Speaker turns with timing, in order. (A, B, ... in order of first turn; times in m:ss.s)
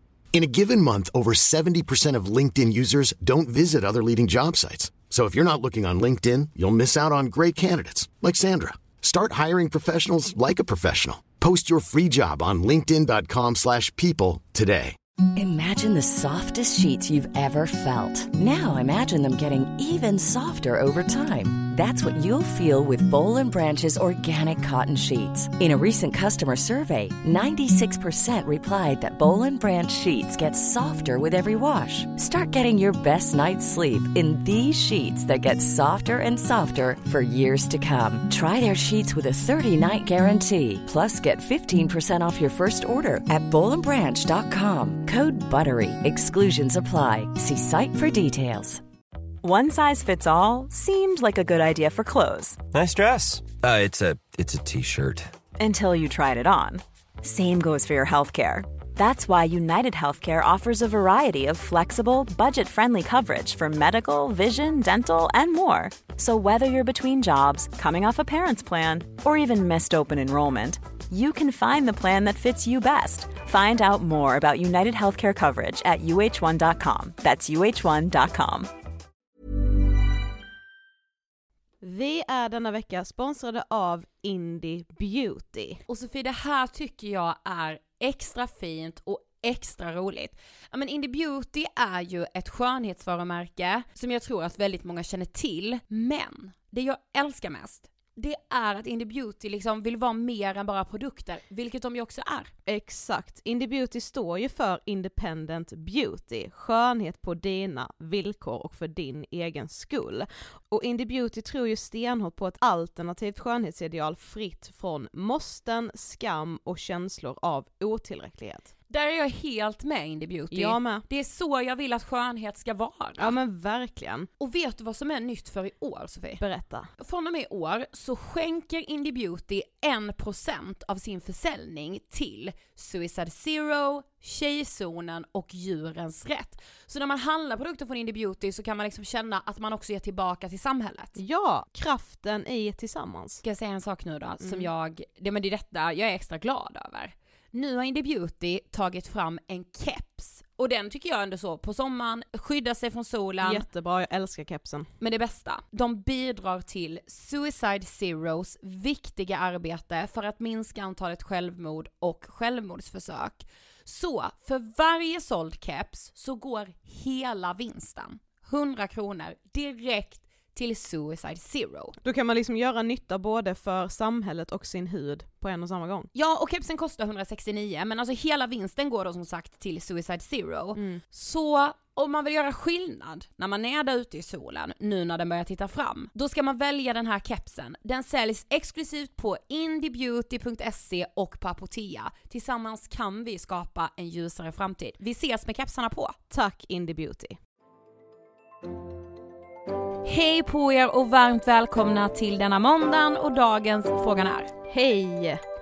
0:00.3-0:15.0 A
0:15.4-0:48.8 B
0:49.4-0:52.6 C
0:52.7-0:55.3 D
0:55.6-1:18.7 C
1:21.8-1:25.8 E
1:25.9-1:42.5 F
1:42.7-1:58.7 E
1:58.9-2:03.3 F
2:00.5-2:01.0 E
2:03.2-2:04.3 E
2:04.4-2:06.4 F
2:06.4-2:06.9 E
2:07.0-2:21.2 F
2:21.2-2:23.4 E
2:23.4-2:33.6 F
2:24.4-2:24.7 E
2:33.4-2:34.9 E
2:35.0-2:52.0 F
2:52.0-2:56.1 E
2:56.1-3:16.2 F
3:00.8-3:01.0 E
3:16.3-3:17.4 E
3:20.0-3:24.5 F
3:24.7-3:25.4 E